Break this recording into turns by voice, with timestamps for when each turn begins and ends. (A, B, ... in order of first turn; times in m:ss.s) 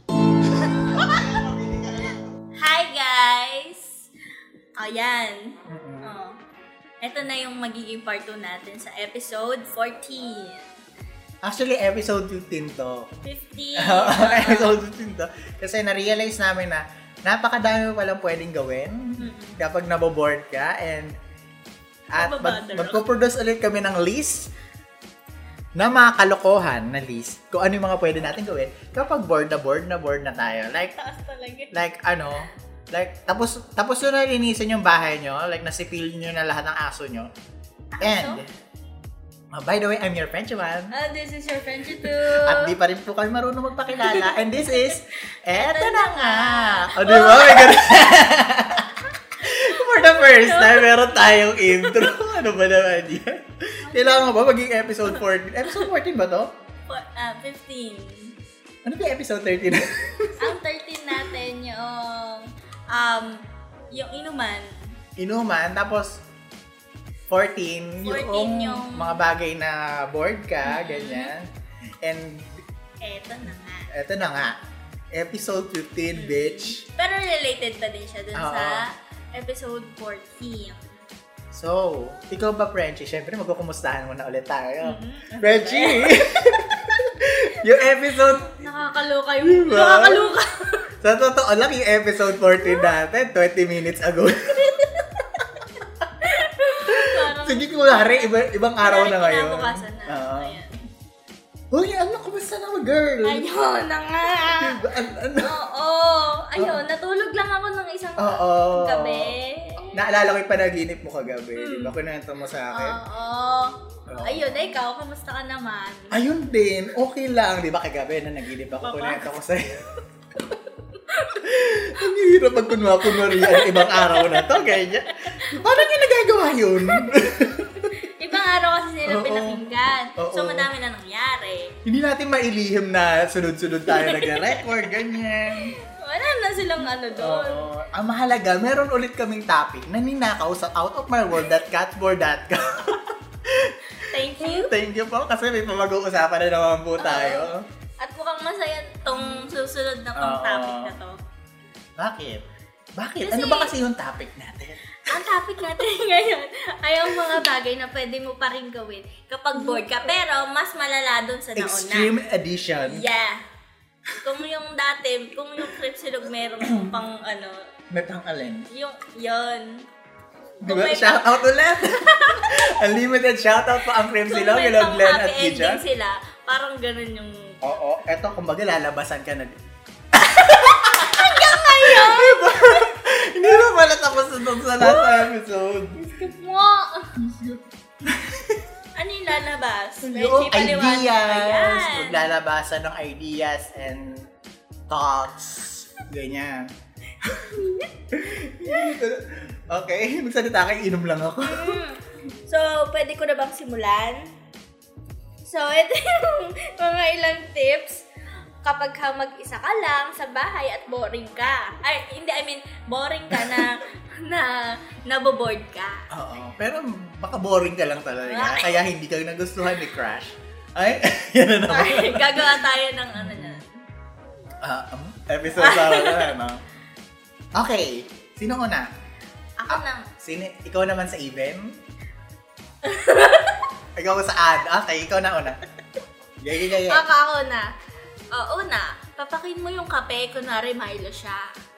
0:00.5-0:02.3 A
0:02.6-0:04.1 B
0:04.8-0:06.4 B
0:05.6-0:06.1 A
0:07.0-0:10.7 B
0:11.4-0:13.1 A
0:13.2-0:14.8 B
0:13.8-0:21.2 A
0:19.2-0:19.6 B
0:22.1-0:24.5 A
0:22.2-0:23.0 B
0:25.8-0:30.9 A
0:30.9-0:31.7 B
0:31.7-0:37.3 A
0:37.9-0:38.4 B
0:38.0-0:38.5 A
0:39.5-0:40.9 A
0:40.9-0:42.7 B
0:42.0-0:56.5 A
0:44.0-0:44.9 B
0:45.5-0:48.2 B
0:49.4-0:52.1 B
0:53.8-0:54.4 B
0:56.9-0:58.3 B
0:58.8-1:00.5 A
1:00.4-1:04.8 B
1:05.2-1:06.2 A
1:07.3-1:11.5 A
1:08.0-1:09.2 B
1:10.6-1:11.3 B
1:12.0-1:12.6 A
1:13.0-1:13.9 B
1:13.9-1:14.6 A
1:15.1-1:16.8 A
1:16.1-1:21.0 B
1:18.3-1:18.8 A
1:21.5-1:28.7 A
1:24.8-1:27.0 B
1:28.4-1:30.9 B
1:29.4-1:30.3 A
1:31.0-1:34.9 A
1:32.6-1:32.9 B
1:34.5-1:35.2 B
1:36.2-1:40.7 B
1:36.8-1:40.6 A
1:41.7-1:43.4 A
1:43.2-1:50.1 B
1:44.2-1:45.5 A
1:48.2-1:53.0 A
1:51.6-1:51.9 B
1:52.7-1:56.1 B
1:54.1-1:54.7 A
1:56.1-1:59.9 A
1:58.8-1:59.3 B
2:01.0-2:01.4 B
2:01.3-2:07.9 A
2:03.0-2:05.9 B
2:06.8-2:07.1 B
2:07.7-2:11.7 B
2:09.0-2:09.6 A
2:10.2-2:10.7 A
2:11.8-2:15.8 A
2:13.9-2:14.7 B
2:15.5-2:17.7 B
2:16.8-2:27.6 A
2:24.0-2:24.7 B
2:27.0-2:27.5 B
2:28.0-2:31.2 B
2:29.2-2:29.5 A
2:30.2-2:31.0 A
2:32.0-2:32.4 A
2:33.0-2:35.3 A
2:33.2-2:33.7 B
2:35.1-2:42.1 B
2:39.6-2:40.0 A
2:41.6-2:43.0 A
2:42.8-2:43.4 B
2:44.2-2:47.6 B
2:46.7-2:46.9 A
2:47.9-2:48.7 A
2:48.7-2:49.8 B
2:50.6-2:52.5 B
2:50.6-2:55.8 A
2:54.2-2:57.6 B
2:57.6-2:59.6 A
3:00.1-3:06.2 A
3:00.9-3:02.9 B
3:04.8-3:05.3 B
3:05.9-3:07.2 B
3:07.2-3:08.6 A
3:08.9-3:12.2 B
3:10.0-3:14.3 A
3:14.9-3:21.8 A
3:17.5-3:17.9 B
3:18.6-3:18.9 B
3:21.4-3:24.3 B
3:25.4-3:28.0 B
3:28.6-3:36.0 B
3:33.3-3:33.8 A
3:36.1-3:43.6 A
3:38.2-3:38.8 B
3:41.7-3:43.8 B
3:44.6-3:46.6 A
3:45.6-3:46.3 B
3:47.5-3:48.9 A
3:49.6-3:50.1 B
3:49.7-3:51.8 A
3:52.8-3:53.7 B
3:54.0-3:55.6 A
3:56.4-3:57.0 A
3:56.9-3:57.7 B
3:58.3-4:01.5 B